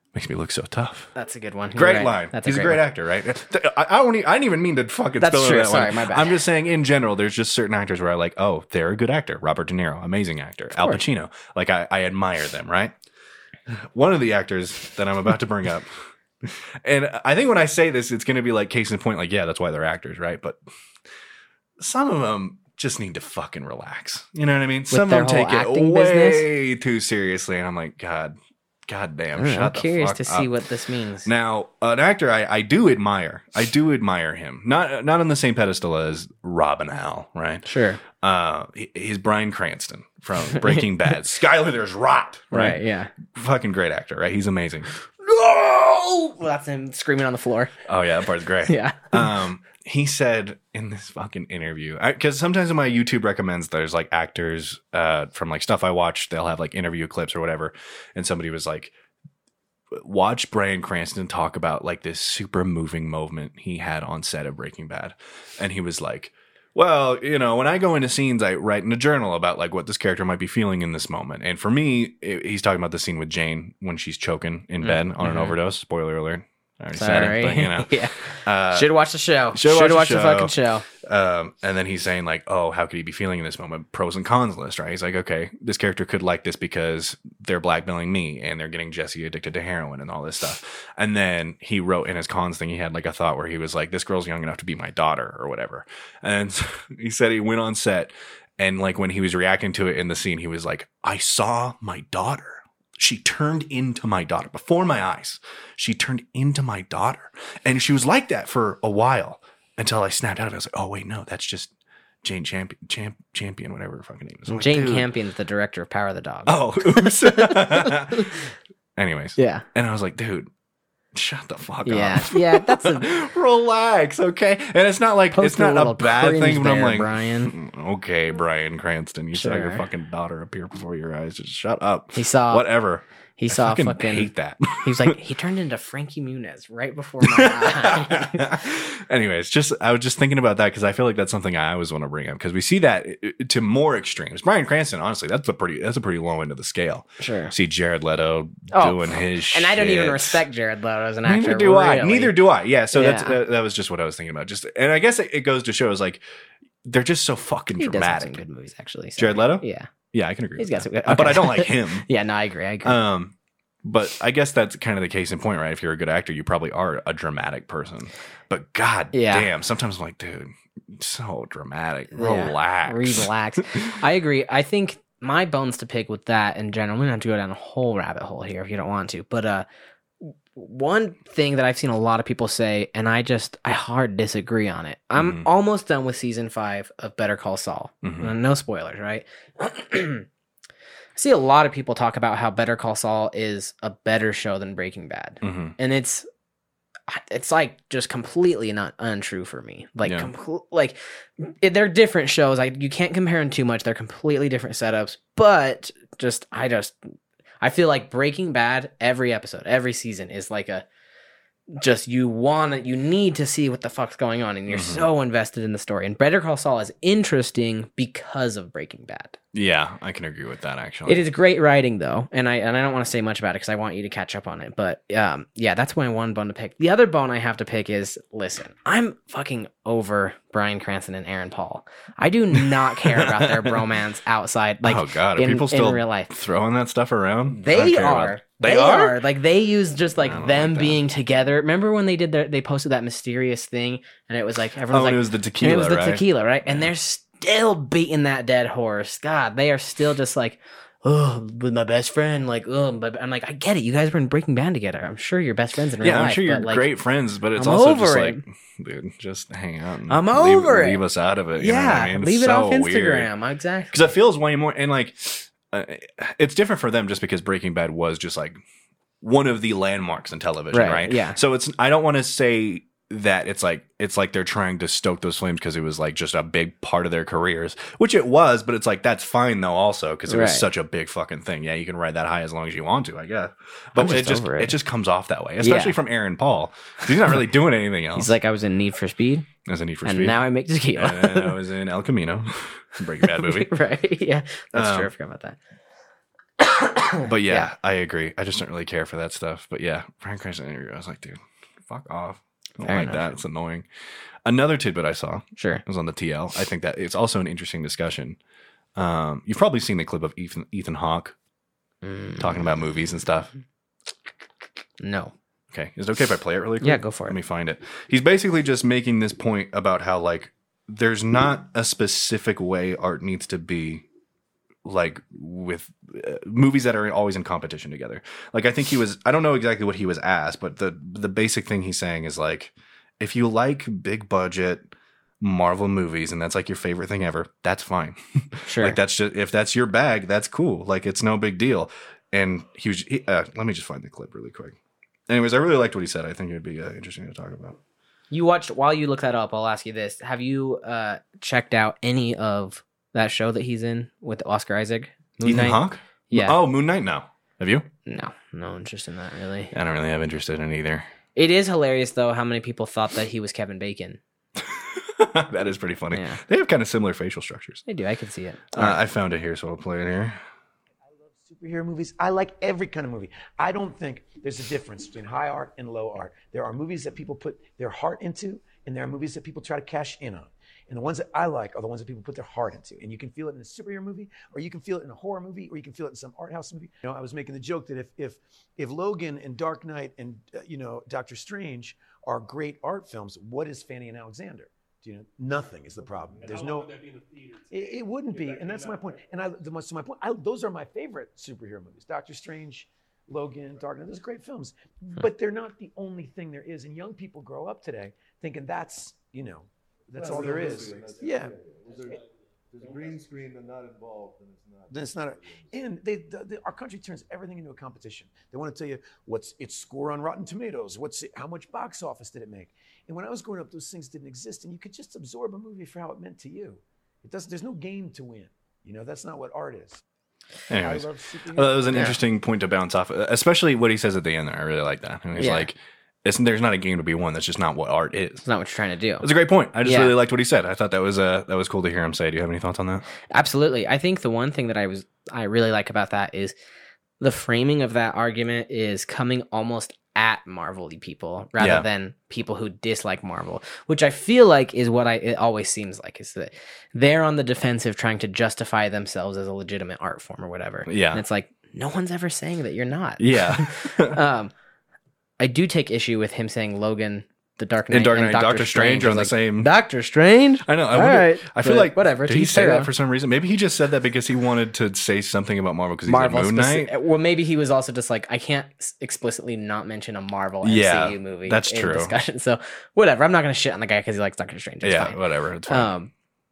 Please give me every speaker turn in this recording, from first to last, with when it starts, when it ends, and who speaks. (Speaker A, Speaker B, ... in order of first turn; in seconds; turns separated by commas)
Speaker A: 0.1-1.1, Speaker B: 1.1-2.8, Speaker A: 1.7-12.9, Speaker B: 5.2-6.4, Speaker B: 10.7-11.0, Speaker A: 13.7-15.9, Speaker A: 16.4-20.6, Speaker A: 21.8-30.5, Speaker B: 24.9-26.5, Speaker B: 29.4-31.3, Speaker A: 31.2-44.9, Speaker B: 37.6-38.0, Speaker B: 40.5-40.8, Speaker B: 42.5-43.1, Speaker B: 45.2-47.7, Speaker A: 47.9-58.9, Speaker B: 48.6-49.3, Speaker A: 59.9-78.9, Speaker B: 74.8-75.5, Speaker B: 76.9-80.8, Speaker A: 79.5-115.1, Speaker B: 114.5-118.4, Speaker A: 116.5-118.3, Speaker A: 119.0-120.5, Speaker B: 119.4-119.6, Speaker A: 121.1-135.2, Speaker B: 121.8-123.1, Speaker B: 125.3-127.5, Speaker B: 129.3-129.8, Speaker B: 132.1-132.7, Speaker B: 133.4-134.3, Speaker B: 134.8-138.5, Speaker A: 137.2-150.4, Speaker B: 147.2-147.5, Speaker B: 148.7-152.4, Speaker A: 151.2-156.2, Speaker B: 152.9-153.3, Speaker A: 156.8-158.4, Speaker B: 157.8-159.9, Speaker A: 159.2-162.1, Speaker B: 160.6-163.0, Speaker A: 162.8-173.8, Speaker B: 169.1-169.5, Speaker B: 172.1-179.7, Speaker B: 180.2-190.2, Speaker A: 185.2-185.4, Speaker A: 188.0-188.3, Speaker B: 191.2-196.3, Speaker A: 195.4-195.7, Speaker B: 197.1-207.0, Speaker A: 200.0-200.3, Speaker B: 207.6-210.8, Speaker B: 211.7-219.3, Speaker A: 214.7-215.1, Speaker A: 219.5-221.3, Speaker B: 221.1-236.3, Speaker A: 232.5-233.8, Speaker A: 234.8-239.2, Speaker B: 237.5-256.8, Speaker A: 240.2-241.0, Speaker A: 244.9-246.9, Speaker A: 256.0-263.3, Speaker B: 257.6-258.4, Speaker B: 260.1-261.0, Speaker B: 261.6-264.1, Speaker A: 263.9-268.6, Speaker A: 269.2-288.3, Speaker B: 270.7-271.4, Speaker B: 280.3-280.7, Speaker B: 283.9-284.8, Speaker B: 285.6-285.9, Speaker B: 288.1-289.5, Speaker A: 289.6-290.4, Speaker B: 290.0-291.6, Speaker A: 290.9-293.7, Speaker B: 293.2-295.6, Speaker A: 294.7-295.1, Speaker B: 296.6-297.7, Speaker A: 297.2-303.9, Speaker B: 302.8-303.2, Speaker A: 304.4-308.4, Speaker B: 305.6-305.8, Speaker A: 308.9-311.3, Speaker B: 312.0-312.8, Speaker A: 312.4-313.5, Speaker B: 315.0-315.3, Speaker A: 315.7-324.0, Speaker B: 316.8-317.4, Speaker A: 324.8-344.8, Speaker B: 338.7-339.0, Speaker A: 345.3-347.8, Speaker B: 348.3-356.6, Speaker A: 355.4-357.9, Speaker B: 358.1-359.7, Speaker A: 359.7-361.1, Speaker B: 361.3-364.2, Speaker A: 364.6-367.8, Speaker B: 366.1-366.4, Speaker B: 367.9-368.9, Speaker A: 368.7-370.4, Speaker C: 371.1-397.1, Speaker D: 396.1-396.8, Speaker C: 397.7-411.5, Speaker D: 410.1-415.7, Speaker C: 414.9-430.0, Speaker A: 430.7-438.5, Speaker C: 430.7-432.2, Speaker B: 435.4-435.7, Speaker B: 438.4-439.3, Speaker A: 439.2-443.0, Speaker B: 439.8-440.1, Speaker B: 443.3-446.5, Speaker B: 447.2-464.5, Speaker A: 451.6-451.9, Speaker A: 460.9-461.2, Speaker A: 463.2-464.2, Speaker B: 465.4-472.9, Speaker A: 467.9-469.7, Speaker A: 470.6-476.9, Speaker B: 476.1-486.1, Speaker A: 480.6-482.1, Speaker A: 484.8-485.9